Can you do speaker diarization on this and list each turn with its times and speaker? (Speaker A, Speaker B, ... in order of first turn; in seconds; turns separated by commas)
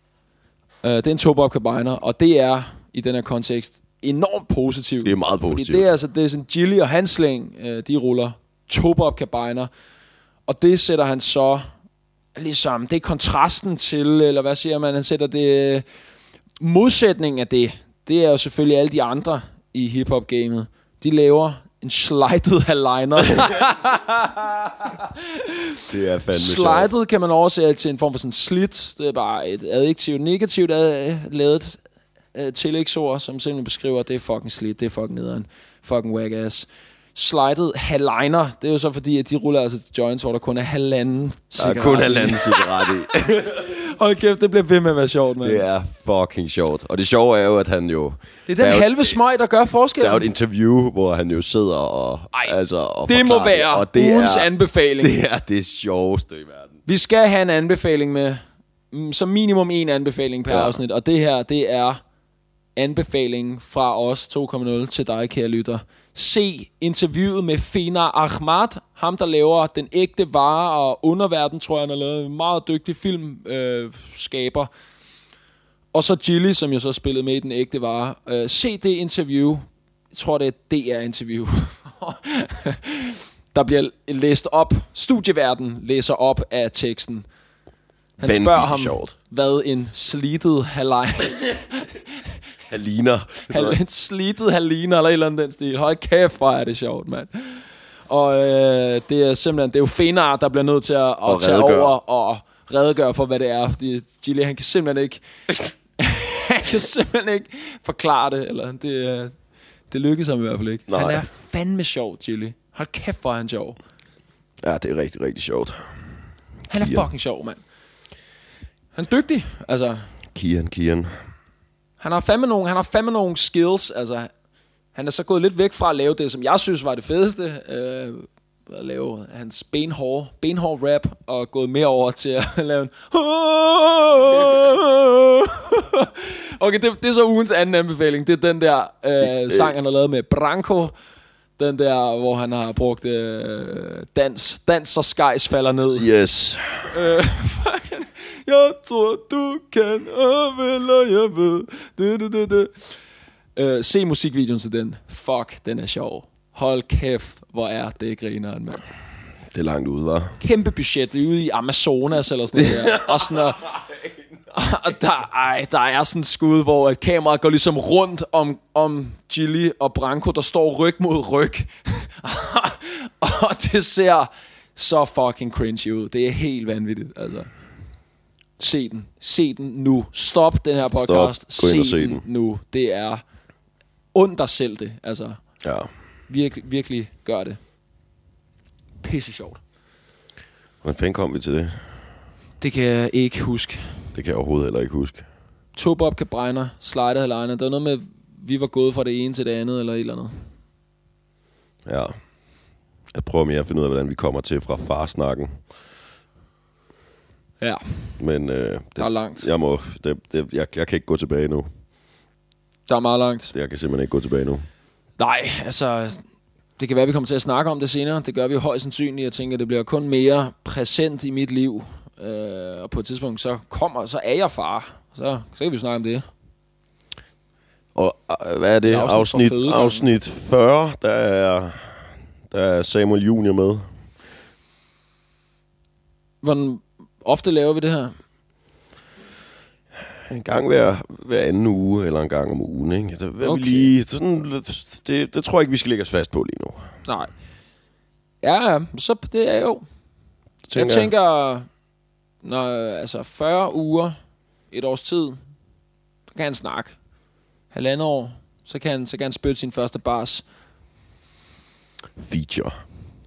Speaker A: 0.8-9.7, Speaker B: 5.0-5.9, Speaker A: 10.5-11.7, Speaker A: 12.4-15.9, Speaker A: 16.6-31.8, Speaker B: 25.9-26.9, Speaker A: 32.3-45.6, Speaker B: 41.6-43.6, Speaker B: 45.4-49.2, Speaker A: 48.5-50.3, Speaker B: 50.0-56.8, Speaker A: 53.1-55.2, Speaker A: 56.9-62.0, Speaker B: 60.5-60.8, Speaker A: 62.8-74.7, Speaker A: 75.9-87.3, Speaker A: 88.2-92.2, Speaker B: 88.2-89.1, Speaker B: 92.7-93.8, Speaker A: 93.5-105.2, Speaker B: 101.3-102.0, Speaker A: 106.0-109.4, Speaker A: 109.9-113.8, Speaker B: 110.9-111.2, Speaker B: 114.6-115.8, Speaker A: 116.7-117.6, Speaker B: 116.8-117.1, Speaker A: 119.0-120.1, Speaker B: 120.3-121.1, Speaker A: 122.0-124.3, Speaker A: 124.9-140.9, Speaker B: 139.2-139.8, Speaker A: 141.6-146.1, Speaker B: 146.0-146.9, Speaker A: 146.9-152.7, Speaker A: 153.6-158.9, Speaker B: 159.5-160.4, Speaker A: 160.4-163.7, Speaker B: 162.6-163.5, Speaker A: 164.5-177.5, Speaker A: 178.6-183.2, Speaker B: 180.9-182.2, Speaker A: 184.1-185.4, Speaker B: 185.6-185.9, Speaker A: 186.3-187.6, Speaker A: 189.0-189.6, Speaker B: 190.8-191.8, Speaker A: 192.6-194.0, Speaker B: 194.1-195.3, Speaker A: 195.8-200.3, Speaker B: 201.9-202.2, Speaker B: 203.1-205.5, Speaker A: 207.6-208.2, Speaker B: 208.2-211.7, Speaker A: 209.0-209.5, Speaker A: 212.9-213.5, Speaker B: 213.5-214.7, Speaker A: 215.2-216.2, Speaker A: 216.8-226.3, Speaker B: 227.9-231.9, Speaker A: 228.9-230.1, Speaker B: 232.5-233.8, Speaker A: 236.4-238.2, Speaker B: 240.2-246.9, Speaker A: 243.4-243.9, Speaker A: 247.1-247.3, Speaker A: 248.4-249.8, Speaker B: 250.7-251.1, Speaker A: 250.8-251.7, Speaker A: 252.4-254.2, Speaker A: 254.7-255.4, Speaker A: 256.3-256.9, Speaker A: 257.7-260.4, Speaker B: 262.2-262.8